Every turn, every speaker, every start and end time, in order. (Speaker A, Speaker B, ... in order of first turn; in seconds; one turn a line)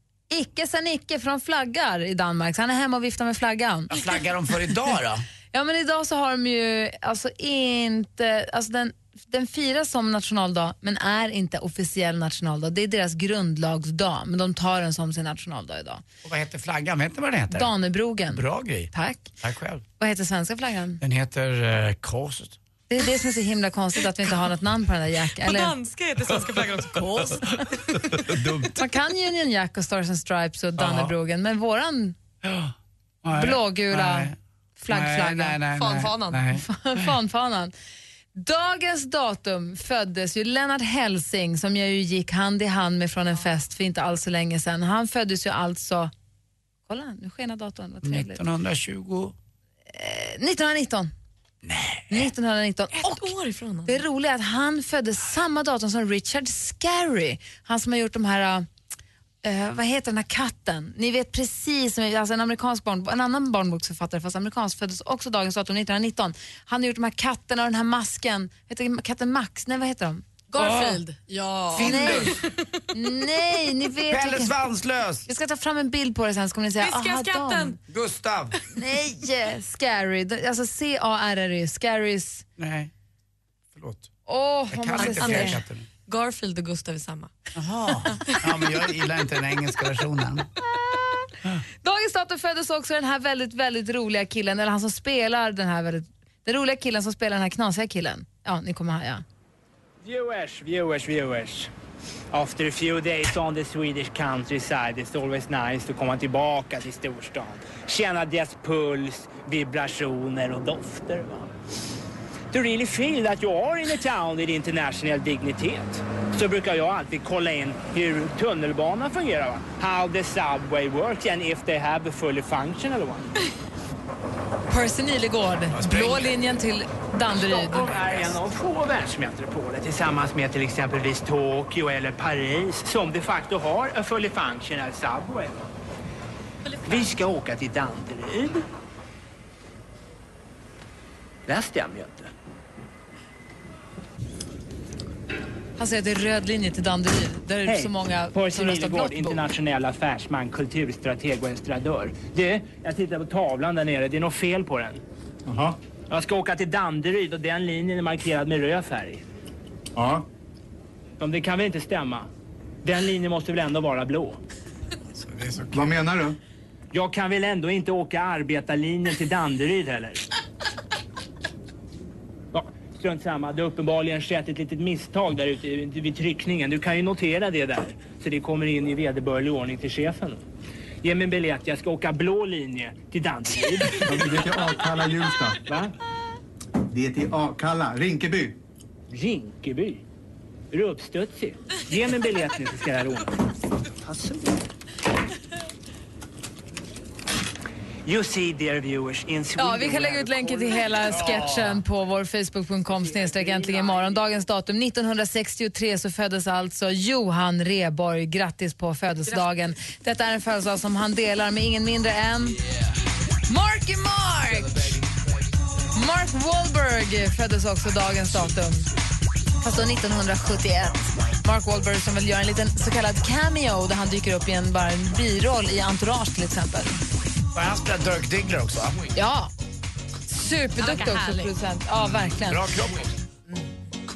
Speaker A: 0.3-3.9
Speaker B: 3.9-5.2
Speaker A: 5.5-16.0
Speaker B: 16.2-17.7
Speaker A: 17.5-19.3
Speaker B: 18.3-18.9
Speaker B: 19.4-19.8
Speaker A: 20.0-21.0
Speaker B: 21.0-22.6
Speaker A: 22.9-25.7
Speaker C: 25.4-28.2
Speaker B: 28.1-28.7
Speaker A: 28.7-32.2
Speaker B: 30.8-31.1
Speaker B: 32.4-34.4
Speaker A: 33.3-35.6
Speaker B: 34.9-37.1
Speaker C: 35.7-36.5
Speaker A: 36.5-37.7
Speaker A: 38.3-46.1
Speaker A: 46.9-48.4
Speaker B: 48.0-49.4
Speaker A: 49.9-51.1
Speaker B: 51.6-52.3
Speaker A: 52.1-53.4
Speaker C: 52.9-54.0
Speaker A: 53.9-58.7
Speaker A: 59.4-70.3
Speaker C: 70.5-72.8
Speaker B: 70.6-71.0
Speaker B: 71.7-72.4
Speaker A: 71.8-72.3
Speaker A: 72.9-74.5
Speaker B: 74.1-75.3
Speaker A: 75.3-77.8
Speaker C: 76.8-77.8
Speaker B: 77.9-78.6
Speaker A: 78.7-82.5
Speaker B: 82.6-82.9
Speaker B: 83.7-84.1
Speaker A: 84.3-85.6
Speaker B: 84.7-85.9
Speaker C: 85.0-87.3
Speaker B: 87.6-90.5
Speaker A: 91.8-99.2
Speaker D: 100.0-101.7
Speaker D: 102.3-111.5
Speaker D: 112.5-123.3
Speaker A: 124.7-127.9
Speaker B: 125.7-126.4
Speaker D: 127.3-135.6
Speaker C: 136.7-137.1
Speaker D: 136.8-138.6
Speaker D: 141.5-142.3
Speaker A: 145.8-149.5
Speaker D: 147.7-155.0
Speaker E: 155.5-155.8
Speaker D: 156.1-159.2
Speaker E: 159.9-160.3
Speaker D: 161.2-162.3
Speaker D: 162.8-164.4
Speaker B: 165.2-166.1
Speaker E: 165.7-166.4
Speaker D: 166.9-170.2
Speaker D: 172.5-180.4
Speaker D: 181.0-184.5
Speaker E: 184.0-185.7
Speaker D: 185.7-185.9
Speaker E: 186.9-188.6
Speaker D: 189.1-190.0
Speaker D: 190.7-193.4
Speaker D: 194.0-194.6
Speaker D: 198.1-201.8
Speaker A: 199.6-212.6
Speaker D: 203.1-204.2
Speaker A: 213.5-215.0
Speaker A: 215.9-218.9
Speaker A: 219.6-227.0
Speaker B: 227.5-229.0
Speaker A: 229.2-229.5
Speaker A: 230.3-232.7
Speaker C: 230.8-231.5
Speaker B: 231.9-233.2